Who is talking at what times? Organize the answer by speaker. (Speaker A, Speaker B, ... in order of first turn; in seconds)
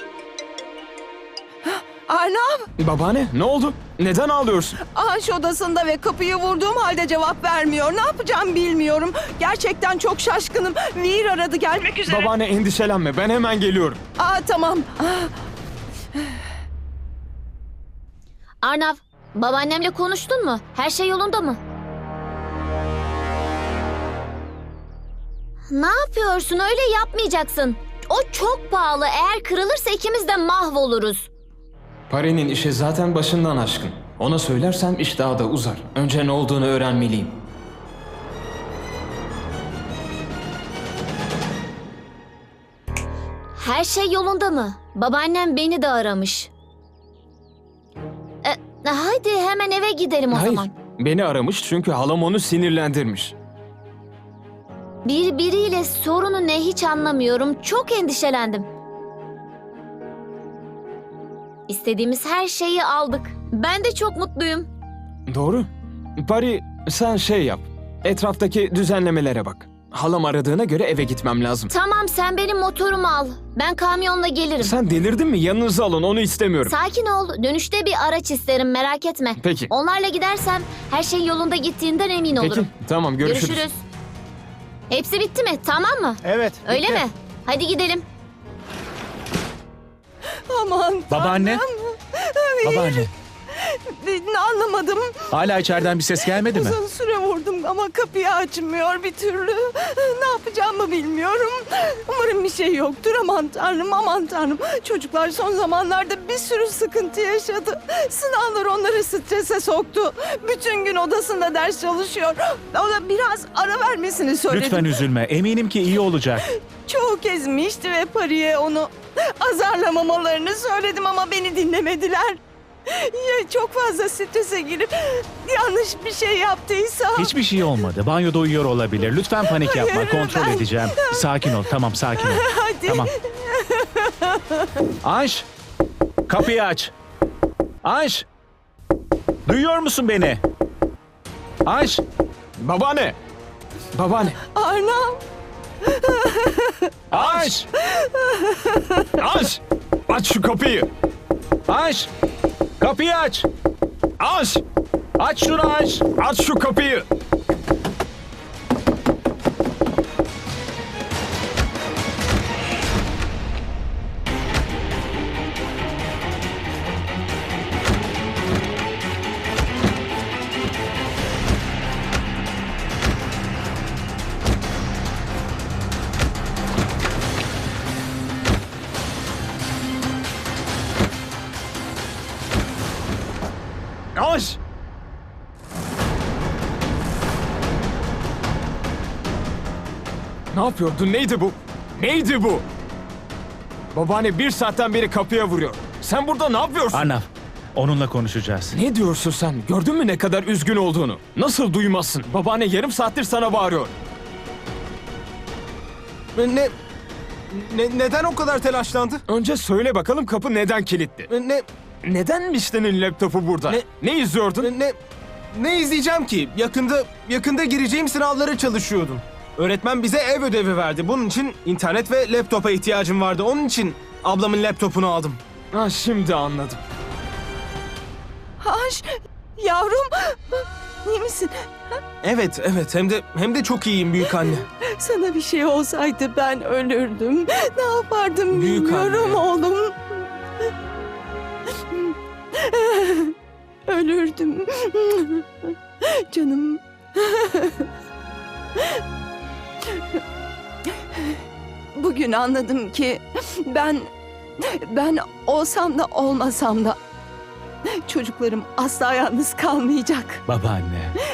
Speaker A: 1.7-2.6, 4.9-12.3, 14.2-15.3, 90.5-93.1, 93.6-95.2, 96.4-114.9, 116.9-127.3, 129.5-131.2, 132.2-134.6, 144.5-145.2, 145.9-149.1, 228.6-229.1, 229.6-231.5, 234.2-240.0, 242.6-243.3, 243.9-245.4, 246.0-247.8, 251.9-254.1, 254.6-257.0, 258.1-260.4
Speaker B: 2.8-4.8, 12.1-14.0, 32.1-37.4, 50.3-53.4, 65.3-71.7, 74.6-76.7, 79.4-79.7, 82.3-83.7, 142.6-143.2, 143.9-144.4, 149.2-150.9, 154.2-154.6, 156.1-157.1, 184.2-184.6, 190.5-192.7, 193.9-197.1, 198.7-203.9, 209.3-211.3, 212.0-214.7, 225.7-226.8
Speaker C: 18.6-21.6, 25.7-31.3, 43.6-46.5, 48.4-50.7, 55.0-58.7, 61.7-64.7, 71.7-74.8, 76.7-82.7, 83.2-83.8, 84.9-88.0
Speaker D: 86.3-87.0, 206.3-206.7, 207.5-209.2, 211.3-211.7, 214.6-215.0, 215.5-225.4, 232.2-234.7, 238.5-239.5
Speaker E: 91.1-91.7, 92.6-93.1, 95.3-96.8, 114.5-116.5, 127.2-133.1, 135.0-135.5, 136.3-136.9, 137.8-138.3, 139.5-140.4, 141.7-142.0, 147.1-147.7, 151.7-152.1, 152.8-153.5, 155.2-156.1, 196.9-198.8, 260.5-261.1